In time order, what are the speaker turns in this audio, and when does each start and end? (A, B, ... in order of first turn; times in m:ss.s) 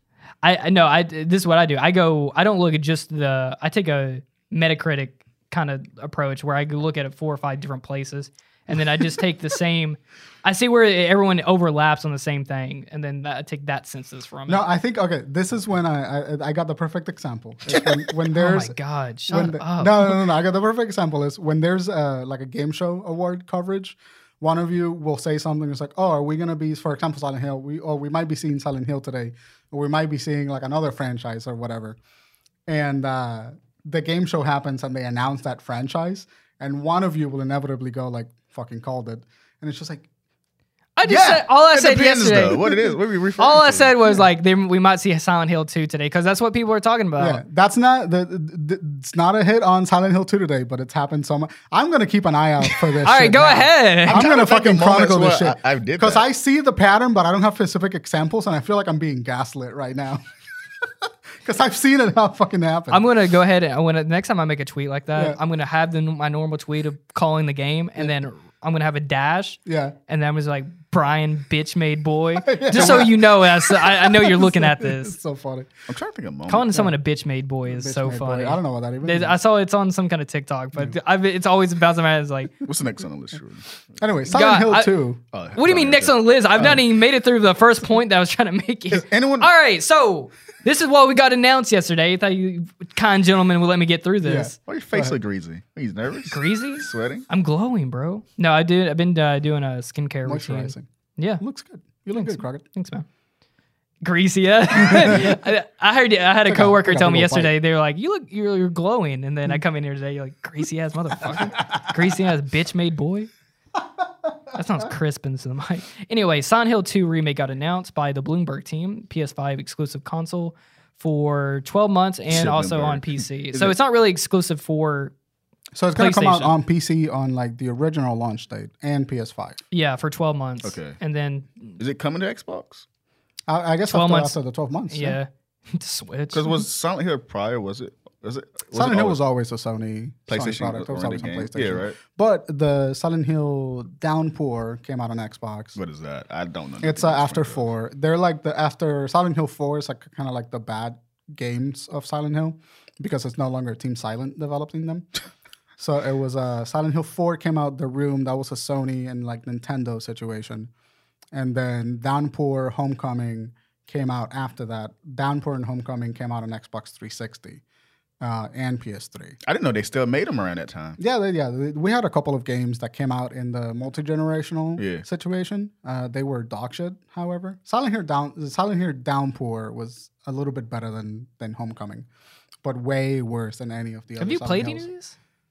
0:00.4-0:14.6 A
0:14.5-0:18.8 B
0:18.3-0:20.2 A
0:19.3-0:32.0 B
0:32.7-0:40.1 B
0:41.0-0:47.4 A
0:41.1-0:41.5 B
0:41.7-0:44.0 C
0:47.2-1:00.2 B
0:53.0-0:54.2 A
0:54.1-0:56.2 C
1:01.4-1:03.1 B
1:02.9-1:15.2 A
1:09.6-1:10.0 B
1:12.4-1:15.7 B
1:12.7-1:13.1 C
1:15.9-1:16.8 C
1:16.5-1:22.6 A
1:17.6-1:19.4 B
1:22.6-1:23.7 C
1:24.0-1:25.2 B
1:24.3-1:25.0 A
1:25.3-1:26.7 C
1:25.6-1:34.6 A
1:28.9-1:29.5 C
1:34.2-1:35.2 B
1:34.6-1:37.3 C
1:36.3-1:41.4 A
1:40.2-1:40.9 B
1:41.4-1:42.6 B
1:42.2-1:43.1 A
1:44.0-1:53.3 A
1:44.8-1:45.4 B
1:46.5-1:47.5 B
1:51.3-1:51.8 B
1:54.5-2:05.1 A
2:02.3-2:03.8 C
2:05.7-2:09.6 B
2:06.0-2:06.5 A
2:09.7-2:11.8 A
2:10.6-2:11.0 C
2:11.8-2:12.8 C
2:13.5-2:15.2 B
2:13.9-2:14.4 A
2:14.9-2:16.6 A
2:16.3-2:19.2 C
2:18.7-2:25.8 B
2:20.3-2:22.0 C
2:25.8-2:27.6 C
2:26.8-2:35.1 B
2:35.8-2:40.7 B
2:41.3-2:47.6 B
2:48.2-2:49.4 B
2:49.4-2:51.0 C
2:51.0-3:02.1 B
2:54.8-2:55.0 C
3:02.6-3:04.9 B
3:04.2-3:05.1 A